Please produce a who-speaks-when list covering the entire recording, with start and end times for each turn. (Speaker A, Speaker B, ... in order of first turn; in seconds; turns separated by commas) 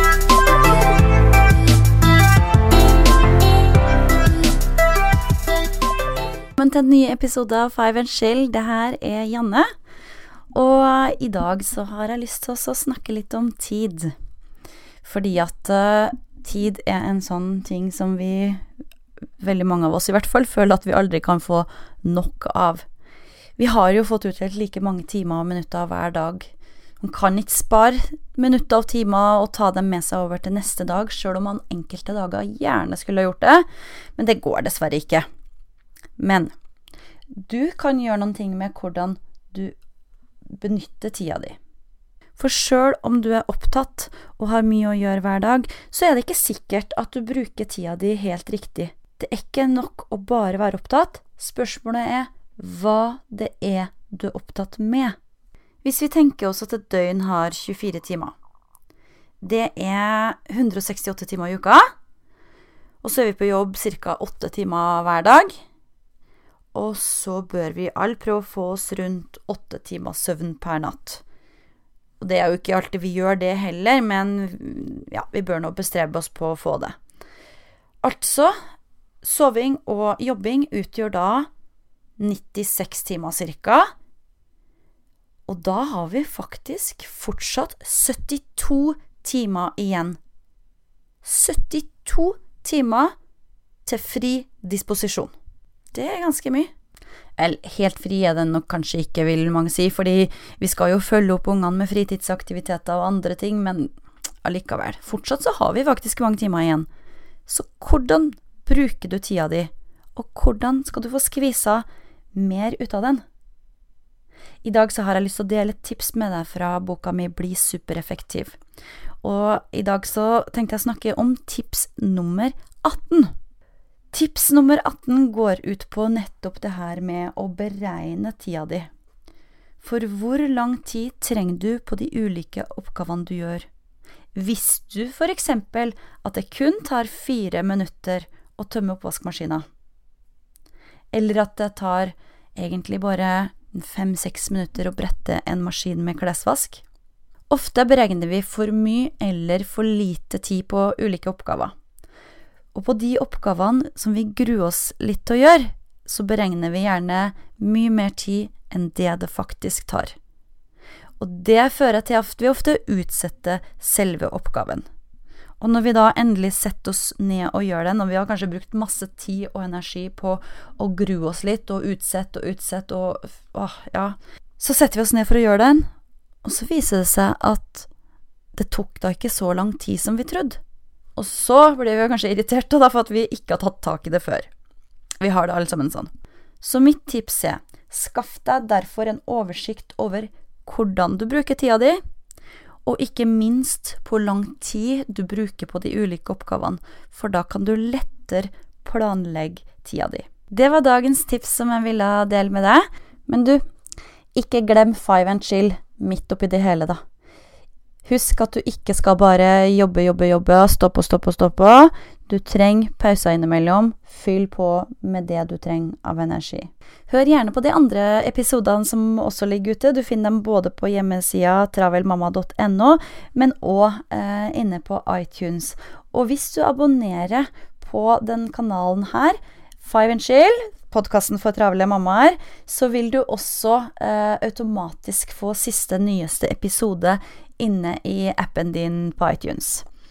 Speaker A: 6.6-9.7, Speaker A: 10.5-14.1, Speaker A: 15.0-18.6, Speaker A: 19.4-22.9, Speaker A: 23.6-35.2, Speaker A: 36.2-36.5, Speaker A: 37.4-39.8, Speaker A: 40.5-41.6, Speaker A: 42.4-55.1, Speaker A: 55.8-58.3, Speaker A: 59.4-61.9, Speaker A: 63.0-65.6, Speaker A: 66.7-71.2, Speaker A: 72.2-77.0, Speaker A: 78.0-78.5, Speaker A: 79.2-81.5, Speaker A: 82.2-83.9, Speaker A: 85.5-90.2, Speaker A: 91.2-93.1, Speaker A: 93.8-95.3, Speaker A: 95.9-96.7, Speaker A: 97.4-103.9, Speaker A: 104.4-106.9, Speaker A: 107.5-113.2, Speaker A: 114.6-118.6, Speaker A: 119.2-123.3, Speaker A: 124.1-128.9, Speaker A: 129.8-133.7, Speaker A: 134.3-139.7, Speaker A: 141.1-146.8, Speaker A: 147.5-151.7, Speaker A: 152.7-160.1, Speaker A: 161.2-164.8, Speaker A: 165.6-175.9, Speaker A: 176.4-177.9, Speaker A: 178.5-180.6, Speaker A: 181.2-184.5, Speaker A: 185.2-186.1, Speaker A: 186.6-192.0, Speaker A: 192.8-203.6, Speaker A: 204.3-207.0, Speaker A: 208.0-239.8